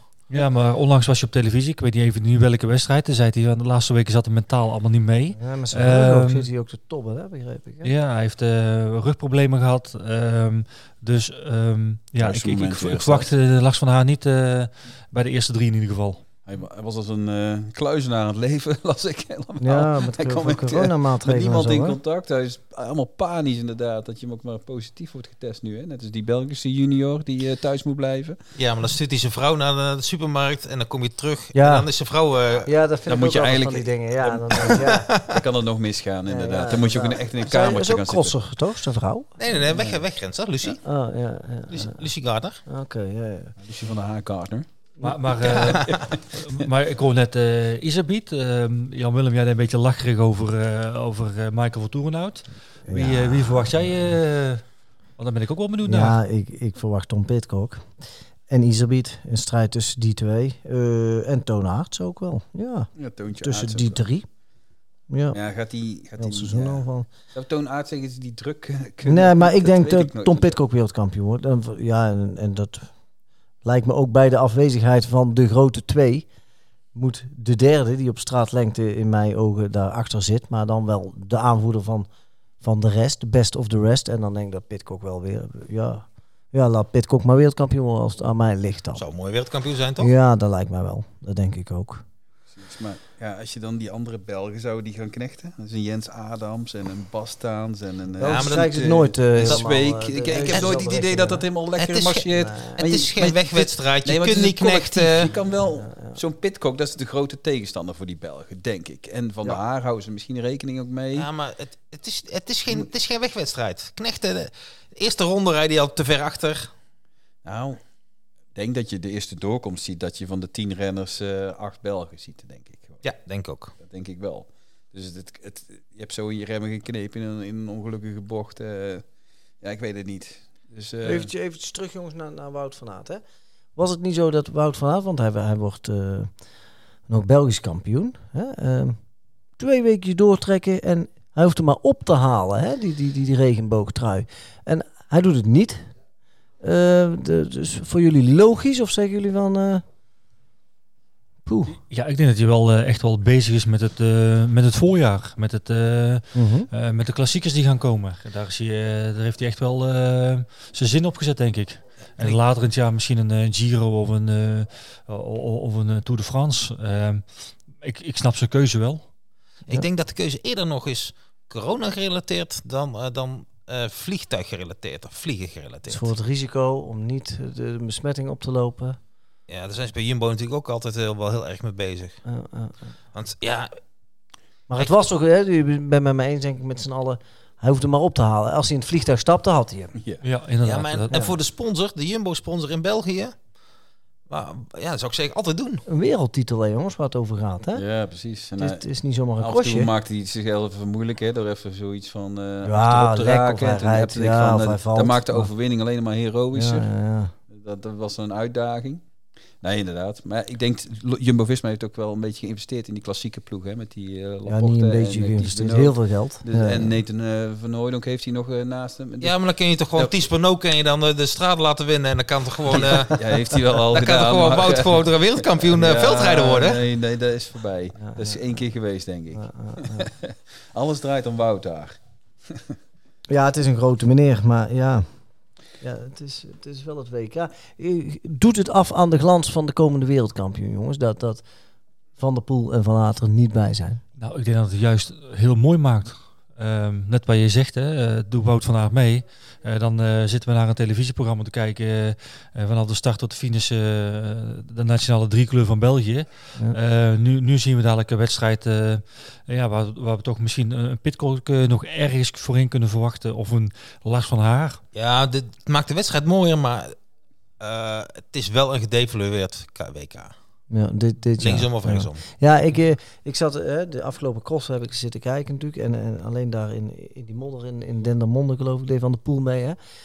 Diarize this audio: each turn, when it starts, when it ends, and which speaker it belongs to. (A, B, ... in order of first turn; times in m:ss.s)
0:00.3-0:06.5 A
0:05.4-0:07.9 B
0:07.8-0:16.2 A
0:12.2-0:13.3 C
0:16.4-0:28.4 C
0:19.6-0:22.0 B
0:28.6-0:32.7 D
0:31.6-0:31.9 B
0:32.6-0:35.2 B
0:33.1-0:38.4 C
0:34.6-0:35.4 D
0:36.3-0:39.4 B
0:39.4-0:40.8 D
0:39.6-0:40.0 C
0:40.8-0:42.1 B
0:41.7-0:42.6 D
0:42.6-0:43.6 B
0:43.6-0:44.7 C
0:45.0-0:56.2 A
0:45.4-0:45.9 D
0:45.6-0:46.6 C
0:52.9-0:53.8 B
0:55.8-0:57.9 B
0:58.5-1:02.9 B
1:02.9-1:04.0 C
1:03.4-1:04.3 B
1:05.1-1:05.4 B
1:05.3-1:10.6 C
1:06.2-1:07.1 B
1:09.0-1:12.9 B
1:13.6-1:16.3 B
1:16.9-1:22.1 B
1:22.6-1:29.0 B
1:28.9-1:30.1 D
1:30.0-1:32.0 B
1:32.5-1:51.3 C
1:38.2-1:41.4 B
1:38.2-1:39.6 D
1:40.5-1:40.8 D
1:41.8-1:45.3 D
1:42.3-1:42.8 B
1:45.7-1:46.2 B
1:51.1-1:56.7 D
1:57.4-1:57.8 C
1:58.5-2:03.0 C
2:03.0-2:03.7 D
2:03.8-2:11.3 C
2:11.0-2:13.2 B
2:13.8-2:16.3 B
2:17.1-2:19.0 B
2:19.6-2:25.9 B
2:26.6-2:29.8 B
2:31.4-2:31.8 B
2:31.7-2:49.1 A
2:36.3-2:36.7 B
2:49.7-2:56.1 D
2:55.9-2:59.0 B
2:59.5-3:02.2 D
3:02.3-3:02.9 B
3:03.1-3:03.8 D
3:04.7-3:10.0 B
3:09.9-3:10.2 C
3:10.2-3:11.1 A
3:10.6-3:13.4 D
3:14.3-3:15.8 D
3:15.9-3:17.8 B
3:17.7-3:18.8 C
3:18.6-3:19.9 B
3:19.4-3:26.9 C
3:22.6-3:25.5 B
3:26.5-3:27.3 B
3:27.5-3:29.0 C
3:29.6-3:39.4 C
3:34.5-3:36.9 B
3:39.2-3:46.8 D
3:42.7-3:52.8 C
3:48.0-3:48.4 B
3:49.3-3:50.1 B
3:53.3-3:55.1 B
3:55.8-4:01.4 B
4:02.2-4:04.0 B
4:04.2-4:24.8 A
4:24.9-4:27.0 D
4:27.6-4:30.3 D
4:30.7-4:39.8 B
4:31.4-4:32.2 D